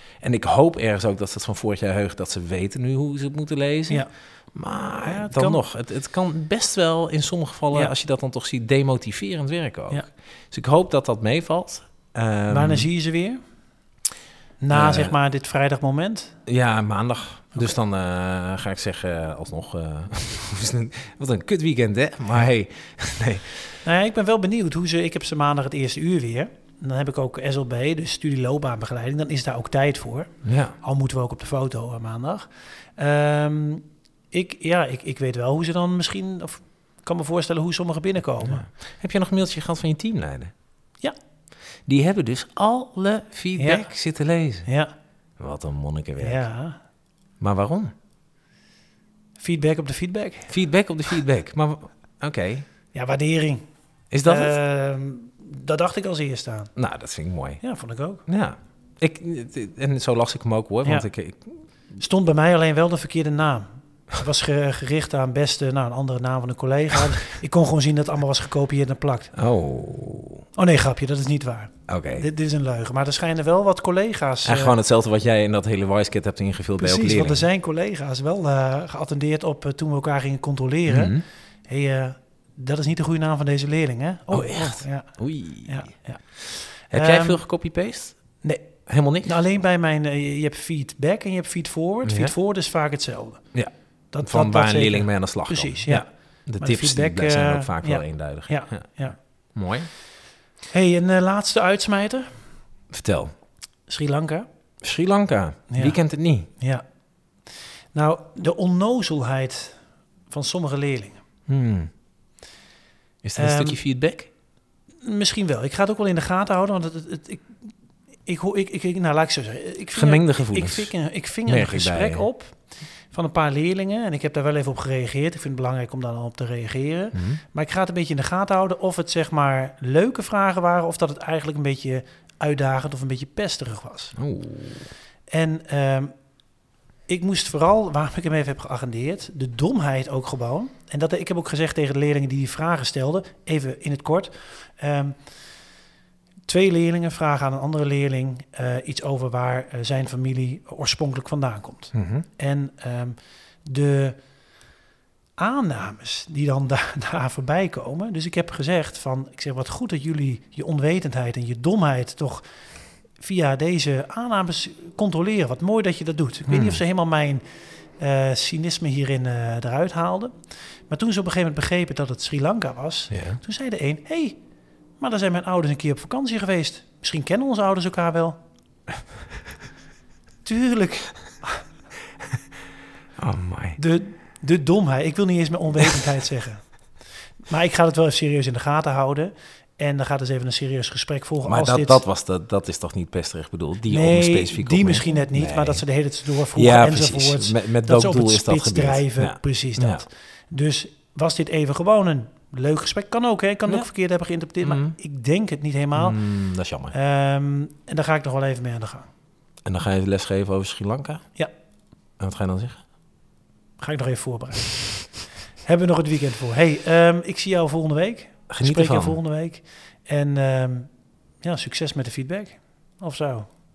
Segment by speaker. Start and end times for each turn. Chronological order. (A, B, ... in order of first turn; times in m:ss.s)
0:00.2-0:12.9 A
0:05.0-0:05.6 B
0:12.5-0:13.4 B
0:14.6-0:16.3 B
0:14.7-0:15.2 A
0:16.5-0:23.8 A
0:23.8-0:38.6 B
0:30.4-0:30.8 A
0:38.4-0:40.5 A
0:41.9-0:44.7 A
0:43.6-0:43.9 B
0:44.6-0:44.9 B
0:45.4-0:46.4 A
0:46.2-0:46.8 B
0:47.4-0:47.9 A
0:49.4-0:50.5 B
0:50.5-0:52.6 A
0:52.9-0:53.6 B
0:54.1-0:54.6 A
0:54.2-0:56.7 B
0:56.8-0:57.6 A
0:57.6-0:58.2 B
0:58.3-1:01.6 A
1:00.8-1:01.1 B
1:02.0-1:09.3 B
1:09.3-1:10.4 A
1:10.6-1:14.8 B
1:11.9-1:12.3 A
1:14.4-1:17.4 A
1:16.8-1:26.2 B
1:20.9-1:21.2 A
1:24.3-1:25.9 A
1:26.8-1:27.4 B
1:26.9-1:28.2 A
1:28.4-1:28.7 B
1:28.8-1:29.4 A
1:29.2-1:33.4 B
1:32.0-1:32.3 A
1:33.5-1:39.9 A
1:34.1-1:39.2 B
1:40.7-1:42.4 B
1:42.9-1:43.3 A
1:43.9-1:44.5 B
1:44.8-1:46.5 A
1:45.7-1:46.0 B
1:46.5-1:46.8 B
1:47.9-1:51.2 B
1:51.5-1:51.9 A
1:53.2-1:54.3 A
1:53.4-1:53.8 B
1:55.0-1:57.6 B
1:58.2-2:02.6 B
1:59.9-2:00.9 A
2:01.4-2:02.3 A
2:03.1-2:14.2 B
2:07.1-2:07.4 A
2:14.2-2:14.9 A
2:15.3-2:16.1 B
2:17.1-2:25.2 B
2:26.5-2:34.2 B
2:31.9-2:32.2 A
2:35.4-2:42.4 B
2:43.2-2:47.4 B
2:46.5-2:46.8 A
2:48.0-2:54.4 B
2:53.1-2:53.4 A
2:55.0-2:58.4 B
3:00.4-3:01.6 B
3:03.2-3:03.8 A
3:03.8-3:06.7 B
3:07.5-3:12.0 B
3:11.4-3:15.8 A
3:13.9-3:26.2 B
3:16.5-3:20.0 A
3:24.6-3:25.0 A
3:25.9-3:26.9 A
3:26.9-3:29.1 B
3:29.6-3:31.2 A
3:32.2-3:32.8 A
3:33.8-3:35.0 B
3:35.6-3:40.9 B
3:38.5-3:39.2 A
3:41.4-3:43.5 B